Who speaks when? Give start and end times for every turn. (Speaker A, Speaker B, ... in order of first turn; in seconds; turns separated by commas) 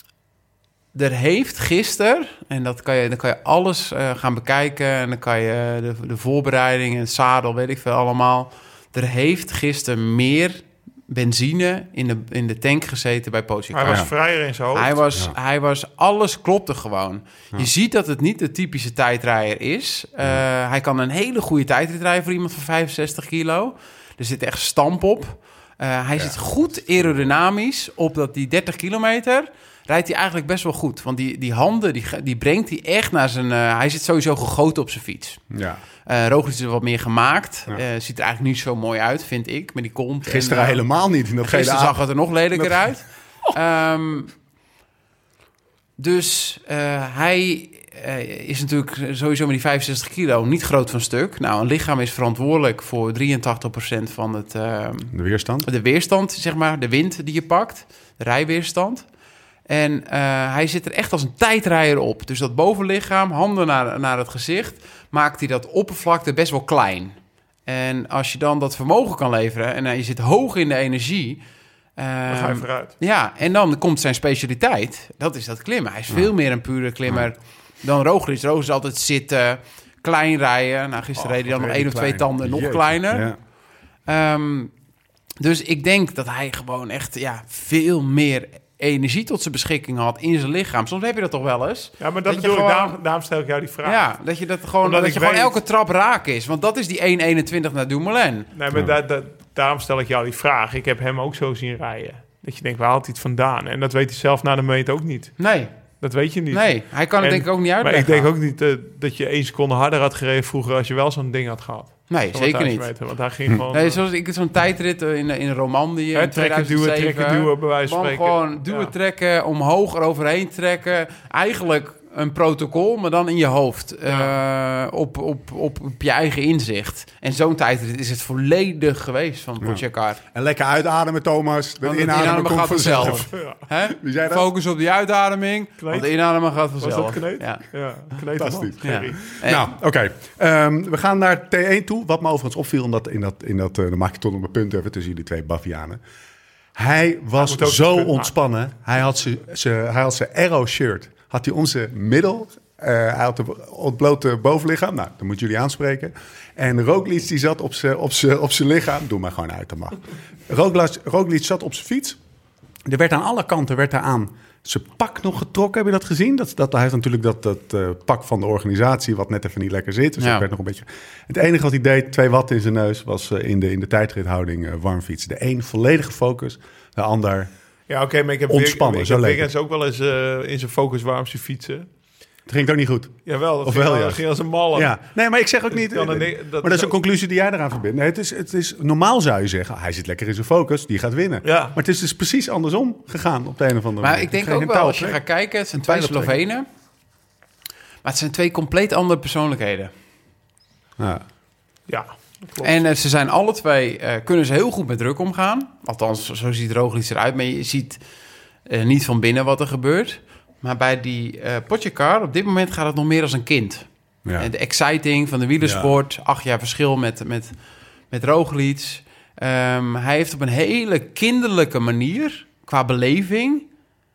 Speaker A: 0.9-14.1, Speaker B: 13.7-15.0, Speaker A: 14.7-35.4, Speaker C: 35.5-35.8, Speaker A: 36.0-40.8, Speaker C: 40.2-42.9, Speaker A: 41.4-44.3, Speaker A: 46.0-59.0, Speaker C: 55.1-55.7, Speaker A: 59.7-71.4, Speaker A: 72.0-83.3, Speaker B: 72.3-72.9, Speaker C: 81.2-83.4, Speaker A: 84.0-84.7, Speaker A: 85.4-93.0, Speaker B: 92.0-94.1, Speaker A: 93.8-98.5, Speaker B: 94.8-95.6, Speaker B: 98.5-105.4, Speaker A: 105.4-105.7, Speaker B: 106.0-114.0, Speaker A: 106.5-108.3, Speaker A: 112.1-112.9, Speaker A: 113.7-130.2, Speaker B: 116.1-118.9, Speaker B: 124.1-124.3, Speaker C: 129.6-133.3, Speaker A: 131.8-137.6, Speaker B: 133.0-133.6, Speaker C: 133.9-134.5, Speaker B: 135.8-136.1, Speaker B: 136.8-139.3, Speaker C: 138.3-146.0, Speaker A: 138.8-139.7, Speaker C: 146.7-162.2, Speaker B: 147.4-148.3, Speaker C: 162.8-177.5, Speaker A: 170.2-170.4, Speaker B: 177.9-181.9, Speaker C: 178.5-179.5, Speaker C: 182.5-195.2, Speaker B: 183.2-185.0, Speaker B: 185.7-186.9, Speaker B: 191.4-191.8, Speaker A: 194.0-196.7, Speaker C: 195.8-196.4, Speaker A: 198.0-199.9, Speaker C: 201.0-201.2, Speaker B: 201.9-202.8, Speaker A: 202.6-208.0, Speaker A: 208.7-213.8, Speaker A: 214.4-217.5, Speaker C: 215.6-215.9, Speaker A: 218.1-223.7